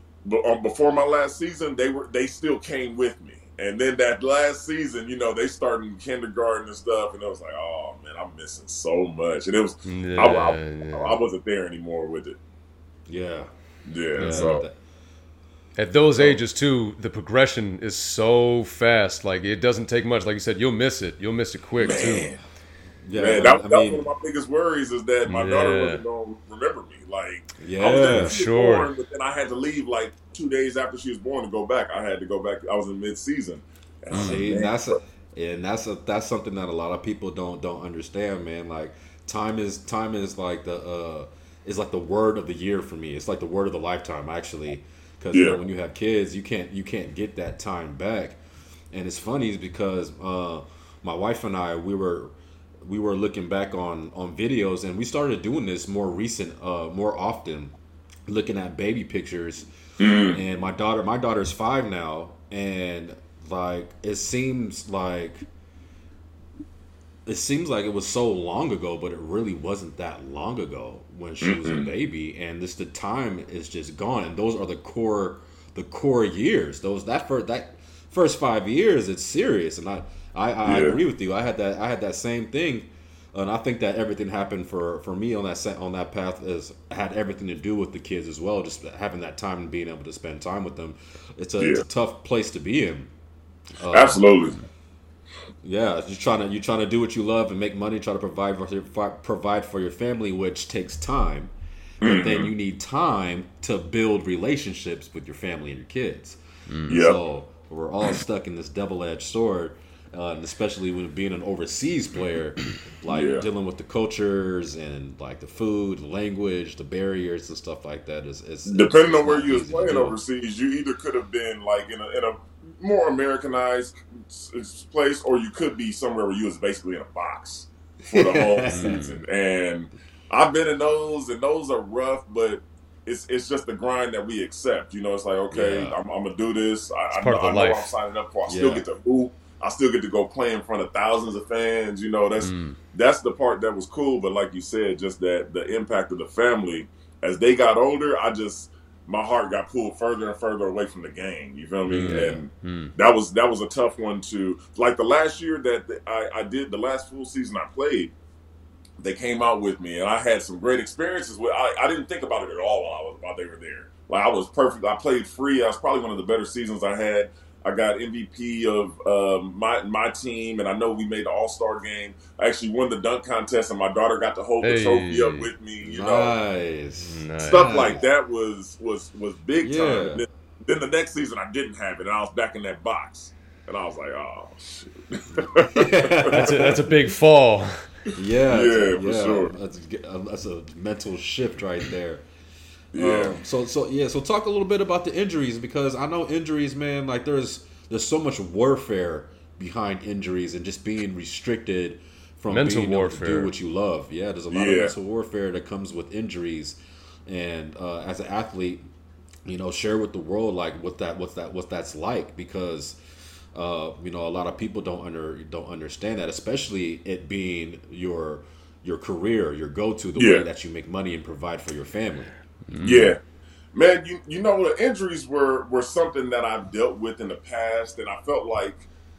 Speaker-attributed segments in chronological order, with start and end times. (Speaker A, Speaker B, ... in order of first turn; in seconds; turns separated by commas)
Speaker A: 0.2-12.4, Speaker B: 9.8-11.2, Speaker C: 13.1-13.5, Speaker A: 13.9-14.7, Speaker B: 14.2-14.6, Speaker C: 14.2-14.8, Speaker B: 15.8-22.3, Speaker A: 21.8-22.4, Speaker C: 23.1-24.1, Speaker A: 23.2-35.0, Speaker B: 25.3-26.0, Speaker C: 27.6-28.4, Speaker B: 28.0-28.9, Speaker B: 34.1-34.4, Speaker C: 34.1-48.4, Speaker A: 45.3-45.6, Speaker C: 48.9-57.8, Speaker C: 58.3-65.4, Speaker A: 60.0-60.4, Speaker C: 67.3-93.1, Speaker A: 71.4-71.9, Speaker A: 80.7-81.0, Speaker A: 91.6-91.8, Speaker C: 93.8-94.2, Speaker A: 93.9-94.6, Speaker C: 95.6-120.2, Speaker A: 102.0-102.5, Speaker A: 106.9-107.2, Speaker A: 113.1-113.5, Speaker A: 118.7-158.1, Speaker C: 128.1-129.0, Speaker B: 128.7-129.2, Speaker C: 135.5-136.0, Speaker B: 137.2-137.9, Speaker C: 138.5-138.8, Speaker B: 142.4-142.8, Speaker C: 151.9-152.4, Speaker B: 151.9-152.9, Speaker A: 159.0-176.4, Speaker B: 174.6-175.5, Speaker C: 175.8-178.0, Speaker B: 177.0-177.8, Speaker A: 177.4-186.4, Speaker C: 179.6-180.2, Speaker C: 185.7-187.0, Speaker B: 186.3-187.7, Speaker C: 188.2-192.2, Speaker A: 188.5-189.6, Speaker A: 192.9-193.4, Speaker C: 193.0-208.8, Speaker B: 202.5-203.5, Speaker A: 204.5-204.9, Speaker C: 209.4-213.0, Speaker C: 213.5-223.0, Speaker A: 220.2-220.4, Speaker B: 222.7-223.1, Speaker A: 222.8-223.2, Speaker A: 223.7-228.9